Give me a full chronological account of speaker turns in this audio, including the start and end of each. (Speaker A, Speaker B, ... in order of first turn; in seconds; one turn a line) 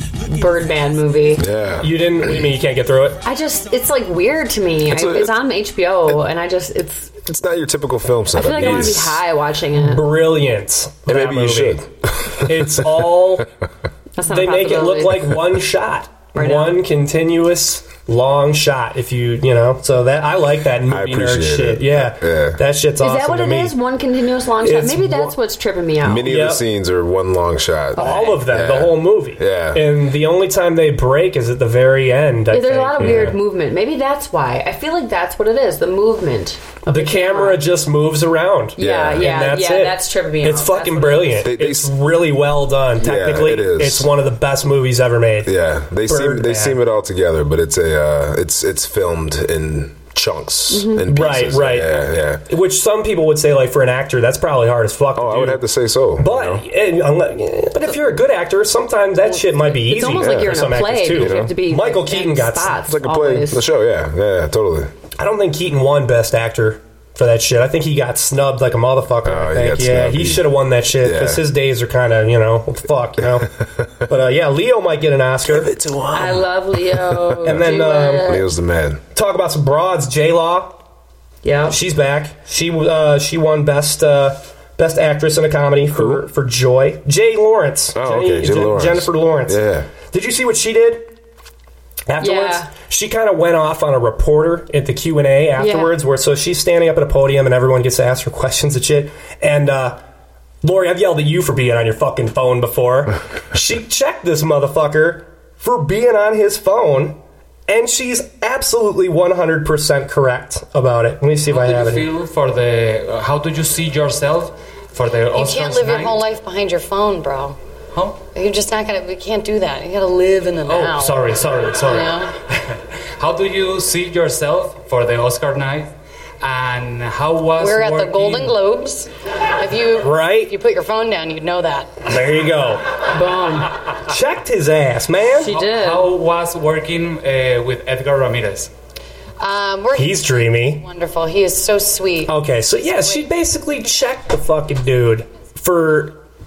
Speaker A: 0.2-1.5
Speaker B: 1.4-2.4
Speaker C: 1.8-3.2
Speaker A: 3.2-7.2
Speaker B: 4.9-5.4
Speaker B: 7.2-9.2
Speaker A: 8.3-10.1
Speaker C: 8.5-9.0
Speaker C: 9.8-11.8
Speaker B: 11.1-13.4
Speaker C: 12.4-13.4
Speaker A: 14.2-15.3
Speaker C: 14.3-23.8
Speaker A: 16.3-16.8
Speaker B: 20.9-22.6
Speaker A: 23.0-26.3
Speaker C: 24.6-25.3
Speaker B: 26.0-29.8
Speaker C: 26.2-26.6
Speaker A: 27.9-28.4
Speaker C: 27.9-33.4
Speaker A: 32.5-37.6
Speaker C: 36.9-45.5
Speaker A: 38.8-41.5
Speaker B: 38.8-39.4
Speaker B: 41.4-42.0
Speaker B: 43.0-44.1
Speaker B: 45.5-52.4
Speaker C: 46.0-46.8
Speaker A: 50.7-51.0
Speaker C: 51.0-55.6
Speaker B: 55.1-56.6
Speaker C: 56.2-62.8
Speaker A: 59.3-63.6
Speaker B: 60.2-60.6
Speaker B: 61.1-61.5
Speaker B: 62.9-64.9
Speaker C: 65.2-73.5
Speaker B: 69.2-71.4
Speaker C: 74.1-75.7
Speaker B: 75.5-79.0
Speaker A: 76.1-78.4
Speaker C: 77.4-78.3
Speaker C: 79.1-80.7
Speaker A: 81.4-81.8
Speaker C: 81.7-91.1
Speaker B: 85.9-86.2
Speaker B: 87.9-89.9
Speaker C: 92.1-100.0
Speaker A: 92.2-92.7
Speaker A: 95.6-95.9
Speaker C: 100.6-107.2
Speaker C: 107.7-112.1
Speaker D: 111.5-116.2
Speaker E: 115.3-117.5
Speaker D: 117.9-118.2
Speaker E: 118.3-122.3
Speaker D: 120.6-128.6
Speaker E: 127.6-132.1
Speaker C: 130.0-130.5
Speaker C: 132.0-132.8
Speaker A: 133.1-133.7
Speaker C: 134.0-135.6
Speaker A: 135.3-136.1
Speaker D: 135.5-138.7
Speaker E: 139.4-142.3
Speaker C: 139.9-140.8
Speaker C: 142.3-146.2